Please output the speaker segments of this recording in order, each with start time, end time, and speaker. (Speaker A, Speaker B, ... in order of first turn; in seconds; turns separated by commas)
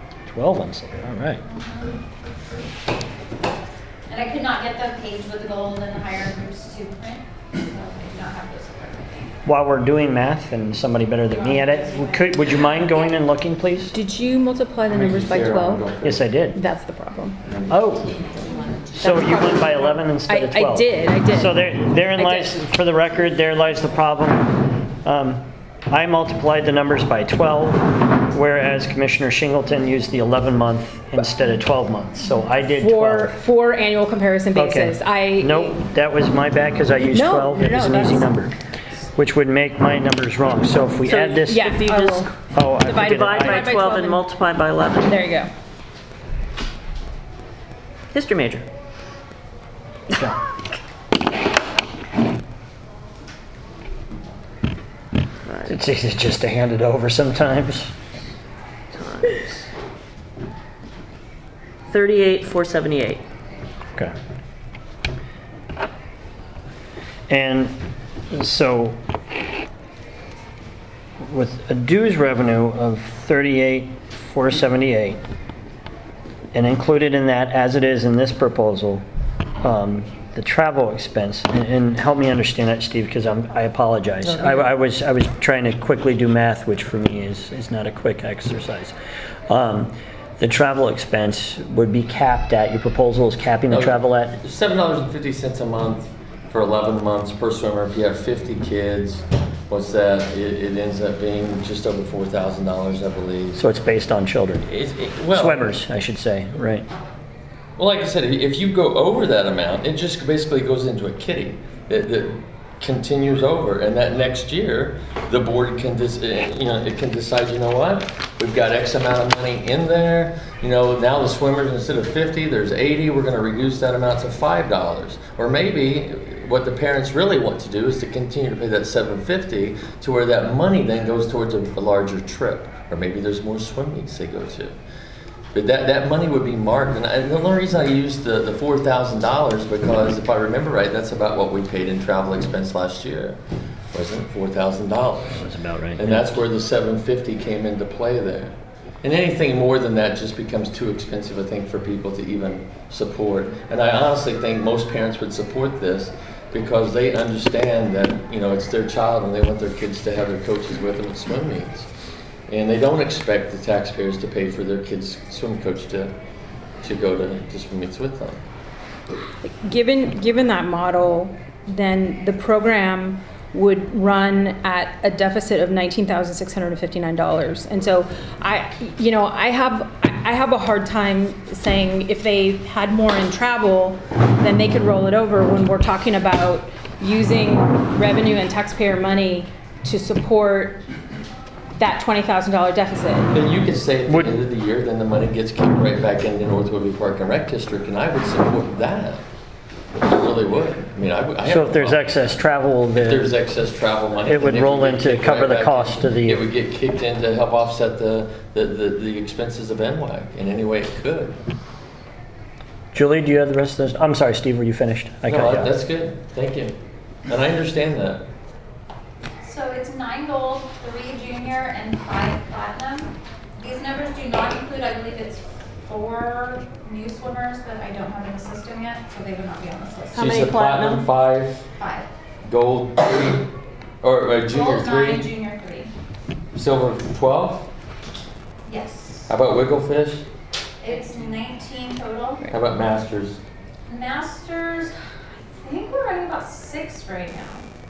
Speaker A: 0.3-1.4, Speaker B: 1.4-2.0, Speaker B: 4.1-9.3, Speaker A: 9.4-13.9, Speaker B: 11.8-12.3, Speaker C: 13.9-17.4, Speaker D: 14.9-16.2, Speaker A: 16.0-16.6, Speaker D: 17.4-17.7, Speaker A: 17.7-18.1, Speaker C: 18.9-21.6, Speaker A: 19.0-33.4, Speaker C: 22.1-22.6, Speaker C: 32.5-35.8, Speaker A: 34.5-38.5, Speaker C: 37.1-38.3, Speaker A: 39.1-41.7, Speaker E: 41.0-42.3, Speaker C: 41.5-44.2, Speaker A: 42.5-43.7, Speaker E: 43.0-45.2, Speaker C: 45.0-45.5, Speaker E: 48.1-48.7, Speaker E: 55.5-55.7, Speaker A: 55.7-57.9, Speaker E: 58.9-59.7, Speaker E: 61.9-63.2, Speaker A: 67.3-67.8, Speaker A: 68.3-69.0, Speaker A: 71.2-75.2, Speaker A: 76.5-79.0, Speaker A: 79.6-88.9, Speaker E: 84.2-84.7, Speaker A: 89.5-94.4, Speaker D: 93.7-103.6, Speaker A: 103.5-104.7, Speaker D: 104.6-105.7, Speaker A: 105.3-106.9, Speaker D: 107.8-134.8, Speaker D: 135.5-143.4, Speaker D: 143.9-161.9, Speaker A: 145.3-146.4, Speaker D: 162.5-166.1, Speaker D: 166.8-168.4, Speaker C: 169.4-190.8, Speaker C: 191.8-193.4, Speaker D: 193.3-199.2, Speaker A: 194.1-194.4, Speaker D: 200.0-202.4, Speaker A: 201.4-203.3, Speaker D: 203.0-211.4, Speaker A: 204.2-206.4, Speaker A: 212.9-215.7, Speaker D: 215.2-216.8, Speaker D: 217.3-218.2, Speaker B: 219.4-230.4, Speaker E: 230.1-231.1, Speaker D: 230.2-231.6, Speaker B: 231.8-232.1, Speaker D: 232.4-233.5, Speaker D: 234.0-235.3, Speaker B: 234.5-235.9, Speaker D: 236.6-237.7, Speaker B: 238.7-239.3, Speaker D: 239.3-240.2, Speaker B: 240.8-242.5, Speaker D: 242.5-243.4, Speaker B: 243.9-247.7